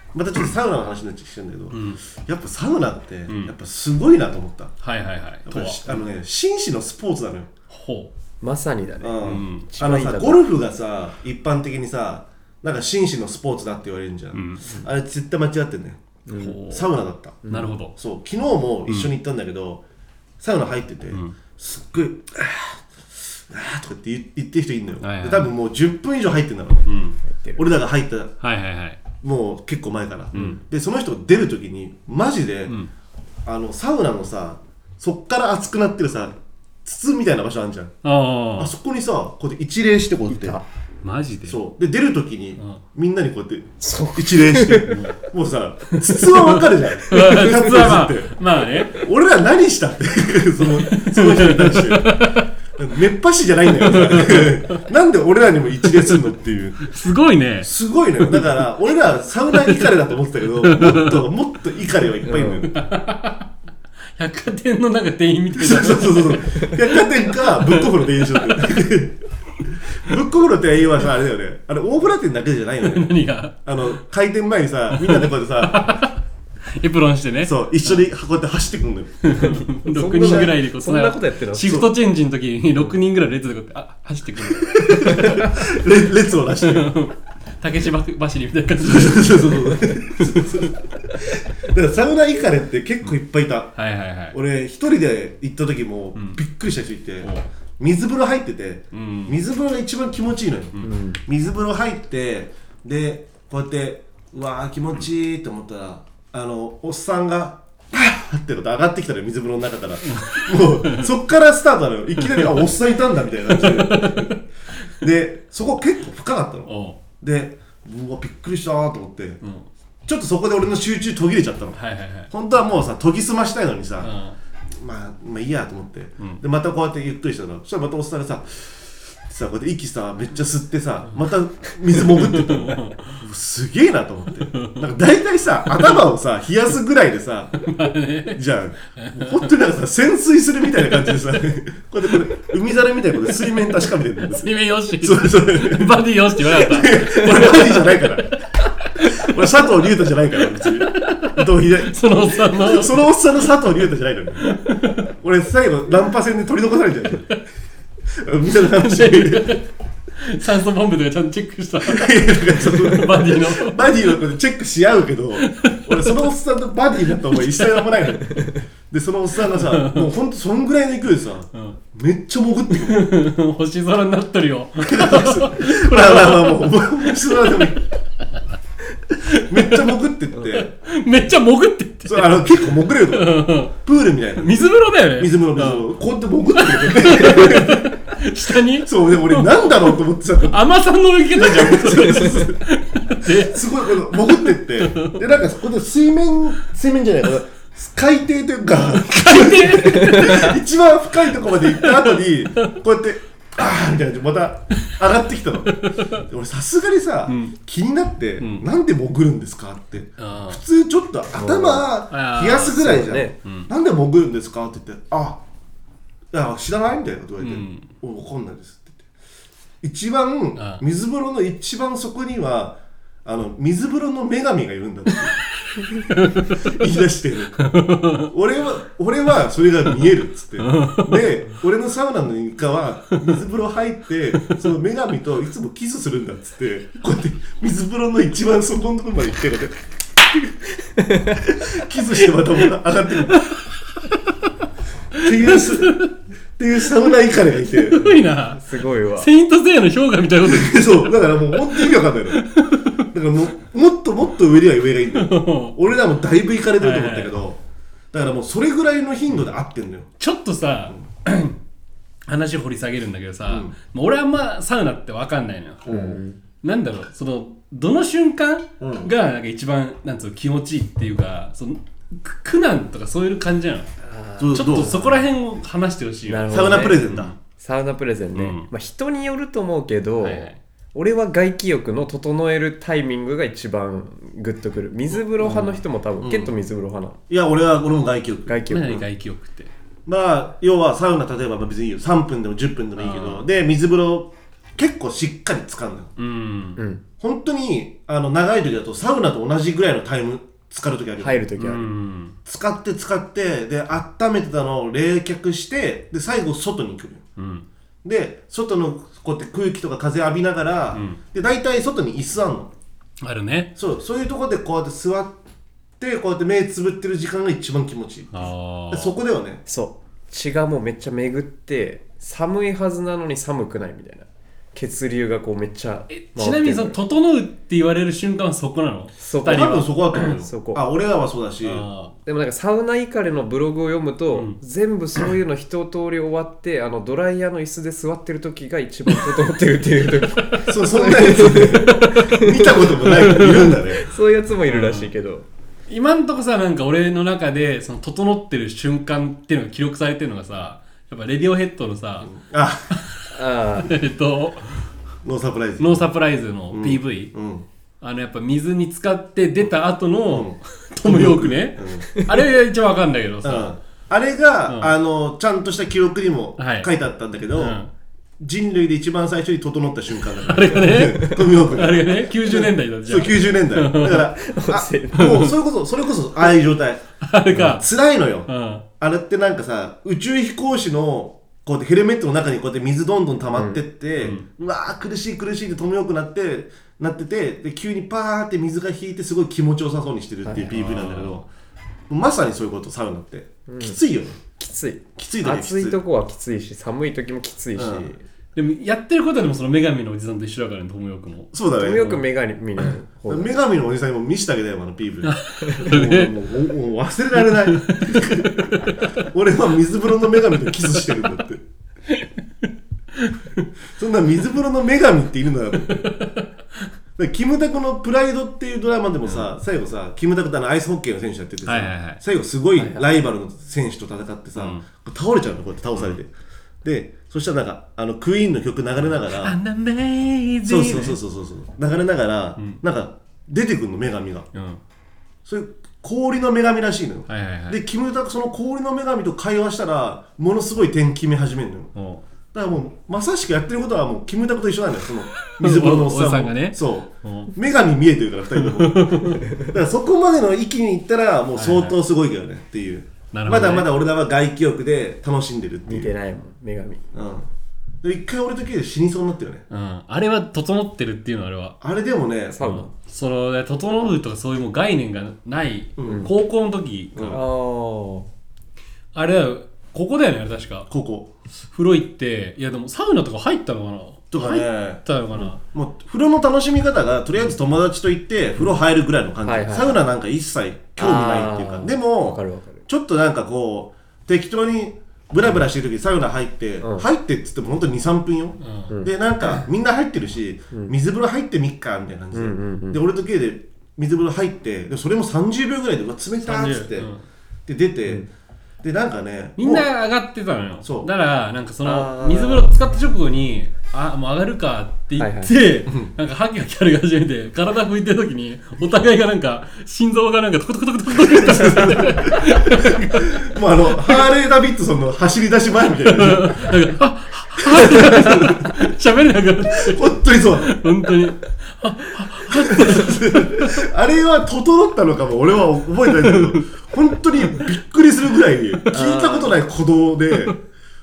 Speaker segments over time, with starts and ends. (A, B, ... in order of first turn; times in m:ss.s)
0:00.1-0:04.8 A
0:01.7-0:02.0 B
0:03.3-0:03.5 B
0:04.8-0:05.9 B
0:05.5-0:07.5 A
0:07.7-0:08.1 B
0:08.4-0:10.4 C
0:09.0-0:19.8 A
0:09.2-0:09.7 B
0:14.3-0:14.7 B
0:16.3-0:16.6 C
0:16.3-0:16.9 B
0:17.4-0:17.7 C
0:17.5-0:17.9 B
0:20.4-0:22.8 A
0:23.4-0:26.9 A
0:25.0-0:25.5 B
0:26.8-0:27.2 B
0:27.3-0:27.6 C
0:27.6-0:28.4 A
0:28.4-0:29.0 B
0:29.2-0:32.8 A
0:30.3-0:30.6 B
0:33.4-0:37.9 A
0:38.0-0:38.7 B
0:38.6-0:40.6 A
0:40.3-0:40.6 C
0:41.0-0:41.6 B
0:41.5-0:48.4 A
0:43.8-0:45.0 C
0:44.9-0:45.2 B
0:45.9-0:49.0 B
0:48.9-0:52.2 A
0:50.8-0:52.5 B
0:52.8-0:57.0 A
0:53.7-0:54.8 B
0:56.8-0:57.7 B
0:57.6-1:02.7 A
0:59.5-0:59.9 B
1:00.6-1:01.2 B
1:02.3-1:02.6 C
1:02.7-1:03.5 B
1:04.2-1:08.8 B
1:05.5-1:09.2 A
1:09.9-1:13.1 A
1:12.8-1:13.9 B
1:13.6-1:15.9 A
1:14.9-1:16.2 B
1:16.8-1:18.0 B
1:17.4-1:19.4 A
1:19.2-1:25.6 B
1:19.8-1:21.8 C
1:20.2-1:20.6 A
1:21.6-1:21.9 A
1:24.6-1:26.9 A
1:26.6-1:30.7 B
1:28.8-1:33.8 A
1:33.8-1:34.4 B
1:34.3-1:54.3 A
1:38.9-1:39.4 B
1:40.8-1:41.2 C
1:50.1-1:51.1 B
1:52.2-1:52.6 B
1:53.5-1:54.4 B
1:55.0-1:59.4 A
1:56.6-1:57.0 B
1:59.4-1:59.7 B
2:00.1-2:01.8 A
2:01.8-2:02.3 B
2:02.3-2:04.1 A
2:04.0-2:04.4 B
2:04.8-2:08.7 A
2:09.3-2:17.7 A
2:11.9-2:13.2 B
2:14.5-2:14.9 B
2:15.7-2:16.0 B
2:17.6-2:18.4 B
2:18.3-2:28.4 A
2:19.0-2:19.5 B
2:24.2-2:28.0 B
2:28.9-2:29.4 B
2:29.0-2:34.6 A
2:30.4-2:33.0 B
2:34.4-2:35.0 B
2:35.2-2:37.4 A
2:38.2-2:39.5 A
2:38.7-2:43.8 B
2:41.8-2:53.1 A
2:45.4-2:46.3 B
2:47.3-2:47.9 B
2:49.5-2:50.1 B
2:52.7-2:57.8 B
2:54.8-2:57.8 A
2:59.2-2:59.9 B
2:59.5-3:00.7 A
3:00.5-3:03.7 B
3:02.0-3:08.0 A
3:04.4-3:05.9 B
3:06.6-3:15.3 B
3:08.8-3:10.6 A
3:11.3-3:12.6 A
3:13.2-3:35.4 A
3:18.8-3:20.6 B
3:20.1-3:20.4 C
3:21.6-3:22.7 B
3:25.7-3:26.2 B
3:27.3-3:27.5 B
3:28.4-3:28.6 B
3:30.2-3:30.6 B
3:31.4-3:31.9 C
3:32.1-3:33.7 B
3:32.7-3:33.3 C
3:36.3-3:39.0 A
3:37.4-3:37.9 B
3:39.8-3:45.4 A
3:40.6-3:40.8 B
3:46.0-3:46.8 B
3:46.6-3:47.7 A
3:47.6-3:48.3 B
3:48.3-3:59.8 A
3:50.6-3:51.3 B
4:01.0-4:01.4 C
4:01.3-4:03.5 A
4:03.4-4:03.6 B
4:05.2-4:08.0 A
4:05.2-4:06.1 B
4:07.8-4:08.6 B
4:08.5-4:09.3 C
4:09.2-4:13.0 B
4:10.4-4:12.4 A
4:13.1-4:17.6 A
4:15.1-4:15.8 B
4:16.8-4:17.4 B
4:18.1-4:20.1 A
4:20.2-4:21.6 B
4:22.3-4:33.9 B
4:23.5-4:23.7 A
4:25.8-4:26.2 A
4:25.9-4:26.4 C
4:28.8-4:29.1 A
4:34.0-4:35.0 C
4:34.4-4:35.0 A
4:34.5-4:37.4 B
4:36.2-4:37.0 C
4:36.5-4:37.3 A
4:37.6-4:47.2 C
4:38.3-4:38.7 B
4:40.2-4:40.6 B
4:45.4-4:45.8 B
4:46.2-4:46.5 A
4:47.3-4:48.9 A
4:48.5-4:49.0 C
4:48.7-4:49.7 B
4:50.0-4:56.1 A
4:53.0-4:53.5 B
4:56.2-4:56.8 B
4:56.8-4:57.0 C
4:57.2-5:01.4 A
5:01.2-5:01.8 C
5:01.6-5:02.4 B
5:02.5-5:07.2 A
5:07.4-5:07.7 B
5:08.0-5:12.7 A
5:10.9-5:11.2 B
5:13.2-5:13.7 B
5:13.8-5:15.4 A
5:16.0-5:19.6 A
5:18.3-5:19.1 B
5:19.7-5:27.0 C
5:26.1-5:30.4 B
5:29.2-5:30.8 C
5:29.4-5:31.8 A
5:31.6-5:32.2 B
5:32.2-5:45.5 C
5:40.6-5:44.1 A
5:41.7-5:42.5 B
5:43.0-5:43.8 B
5:44.6-5:45.1 B
5:45.9-5:52.3 B
5:52.2-5:53.0 A
5:52.9-5:54.9 B
5:53.3-5:53.9 C
5:55.2-5:56.1 A
5:55.8-5:57.3 B
5:56.7-5:57.6 A
5:58.0-6:03.8 B
6:00.3-6:02.2 A
6:03.4-6:07.8 A
6:04.7-6:04.9 B
6:06.6-6:06.9 B
6:07.5-6:07.9 B
6:08.4-6:31.5 A
6:10.4-6:14.3 B
6:14.4-6:15.5 C
6:15.2-6:15.5 B
6:17.2-6:17.8 B
6:18.5-6:18.8 B
6:23.5-6:23.8 C
6:24.2-6:24.5 B
6:30.4-6:30.8 C
6:30.7-6:31.4 B
6:32.1-6:34.4 A
6:33.7-6:34.0 C
6:34.6-6:38.2 C
6:35.2-6:36.0 A
6:37.8-6:38.1 A
6:38.6-6:42.2 B
6:41.5-6:42.2 A
6:41.8-6:43.6 C
6:43.3-6:51.6 A
6:45.2-6:46.3 B
6:47.5-6:49.1 B
6:53.1-6:53.6 B
6:54.0-6:56.0 A
6:55.8-6:56.5 B
6:57.2-7:06.3 A
6:59.2-6:59.5 B
7:01.6-7:02.2 B
7:02.8-7:03.0 C
7:04.6-7:04.8 B
7:06.8-7:09.6 A
7:09.3-7:11.2 B
7:10.6-7:14.5 A
7:14.5-7:14.8 B
7:15.5-7:21.9 A
7:17.3-7:17.8 B
7:22.0-7:22.2 B
7:22.5-7:36.1 A
7:25.4-7:27.5 B
7:28.6-7:29.5 B
7:31.5-7:32.0 B
7:33.3-7:33.9 B
7:35.9-7:37.0 C
7:37.1-7:37.5 A
7:38.0-7:39.6 A
7:39.7-7:41.8 B
7:41.8-7:42.7 A
7:42.5-7:42.9 C
7:42.6-7:47.4 B
7:46.0-7:46.3 A
7:47.2-7:47.4 A
7:47.3-7:48.3 C
7:49.1-7:50.9 B
7:50.9-7:51.3 A
7:51.7-7:55.6 B
7:54.3-7:55.0 A
7:55.6-8:17.1 A
7:59.4-8:00.0 C
8:01.0-8:02.8 C
8:08.6-8:08.9 B
8:08.9-8:09.6 C
8:12.3-8:13.0 C
8:16.4-8:17.2 B
8:17.7-8:18.3 A
8:18.8-8:19.9 A
8:19.6-8:34.2 B
8:20.8-8:21.1 A
8:21.8-8:22.7 C
8:25.2-8:25.6 C
8:31.3-8:36.7 A
8:36.1-8:43.8 B
8:37.6-8:38.7 A
8:39.8-8:40.8 A
8:42.5-8:50.6 A
8:46.2-8:46.6 B
8:48.9-8:49.6 C